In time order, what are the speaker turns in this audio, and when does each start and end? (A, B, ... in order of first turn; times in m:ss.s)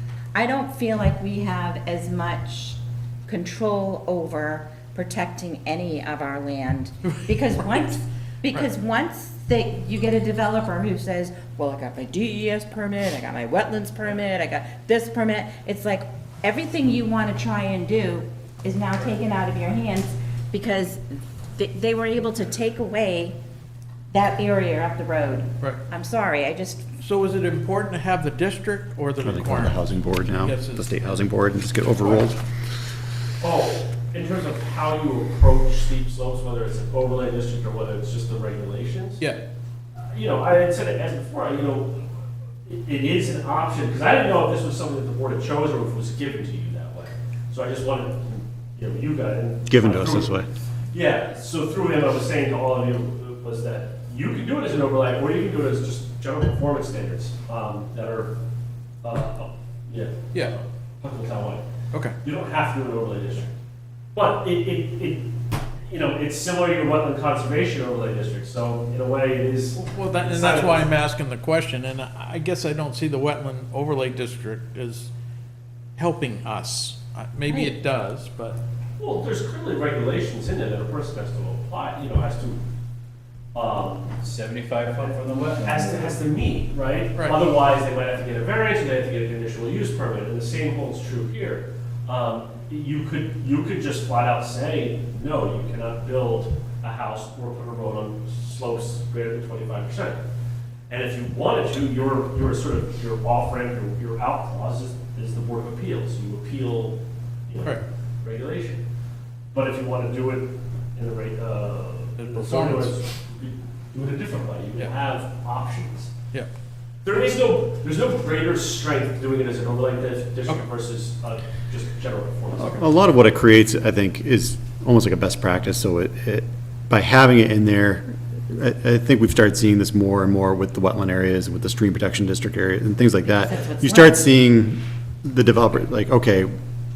0:00.3-0:23.4 A
0:24.1-0:26.9 A
0:27.0-0:31.3 B
0:29.2-0:32.4 C
0:32.0-0:32.3 D
0:33.4-0:39.2 D
0:40.1-0:42.0 D
0:42.7-0:50.3 D
0:49.7-0:50.5 C
0:50.9-0:58.3 D
0:59.0-1:01.6 D
1:02.2-1:03.5 D
1:04.2-1:05.3 D
1:05.9-1:10.9 D
1:09.8-1:15.1 B
1:16.0-1:18.6 B
1:19.0-1:22.6 D
1:23.5-1:24.1 D
1:24.2-1:26.2 E
1:25.6-1:40.2 D
1:27.2-1:27.4 B
1:40.9-1:48.8 D
1:49.5-1:56.1 D
1:52.2-1:52.9 B
1:57.0-2:02.9 D
2:02.6-2:16.5 C
2:13.3-2:14.3 A